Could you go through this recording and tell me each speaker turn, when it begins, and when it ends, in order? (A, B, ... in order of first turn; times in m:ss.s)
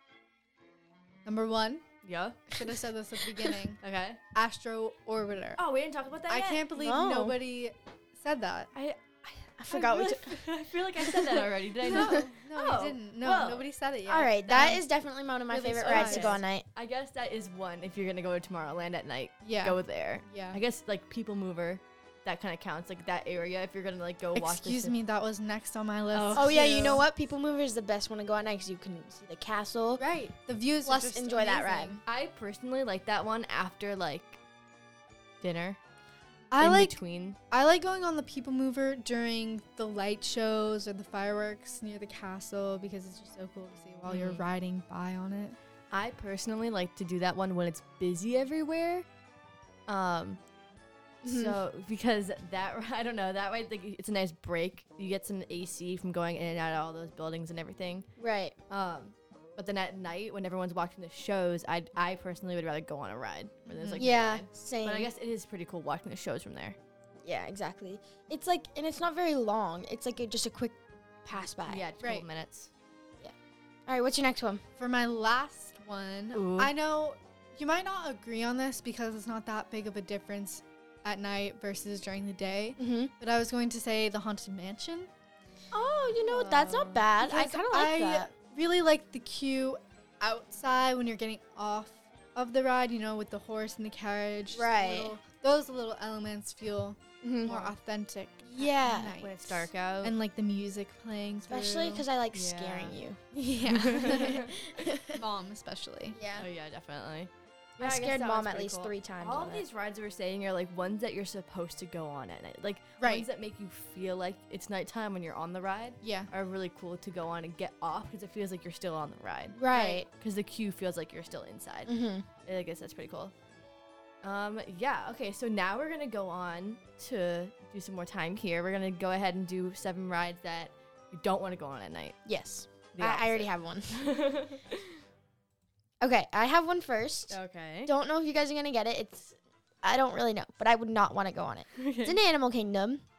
0:01.2-0:01.8 A
0:02.0-0:02.5 B
0:02.5-0:03.8 A
0:03.8-0:04.2 B
0:04.3-0:05.6 A
0:05.6-0:06.7 B
0:06.3-0:08.7 A
0:06.8-0:07.4 C
0:08.7-0:13.6 B
0:09.6-0:10.4 C
0:11.0-0:11.4 C
0:11.8-0:14.8 A
0:11.9-0:12.2 C
0:14.0-0:16.6 C
0:15.5-0:16.4 A
0:15.8-0:24.9 B
0:19.4-0:20.6 A
0:24.3-0:27.0 A
0:26.1-0:27.0 B
0:26.3-0:30.0 C
0:30.0-0:32.0 A
0:30.8-0:32.0 C
0:32.0-0:34.4 B
0:35.4-0:35.8 B
0:36.5-0:37.0 A
0:36.6-0:37.4 B
0:37.5-0:45.6 A
0:44.1-0:44.4 B
0:45.9-0:49.1 B
0:49.9-0:50.4 B
0:51.2-0:58.1 B
0:51.2-0:51.6 C
0:58.2-0:58.5 C
0:58.7-1:06.8 B
1:03.7-1:04.1 A
1:04.0-1:05.1 C
1:07.2-1:11.8 C
1:11.6-1:12.7 B
1:13.9-1:14.6 C
1:14.8-1:25.1 A
1:16.3-1:16.7 B
1:22.8-1:23.1 C
1:25.7-1:28.3 C
1:26.2-1:42.0 A
1:34.5-1:35.1 C
1:37.2-1:37.7 C
1:38.4-1:39.2 C
1:39.1-1:40.1 B
1:41.5-1:45.2 C
1:42.3-1:43.0 B
1:43.3-1:44.5 A
1:43.7-1:44.5 B
1:45.1-1:46.2 A
1:46.1-1:46.5 C
1:46.4-2:01.9 B
1:47.8-1:49.6 C
1:53.0-1:53.3 A
1:56.0-1:56.3 A
1:59.6-2:00.1 C
2:01.8-2:02.3 C
2:02.4-2:03.3 B
2:04.2-2:12.2 B
2:12.2-2:14.1 C
2:12.9-2:15.0 B
2:16.0-2:23.0 C
2:17.3-2:17.9 B
2:21.7-2:22.2 B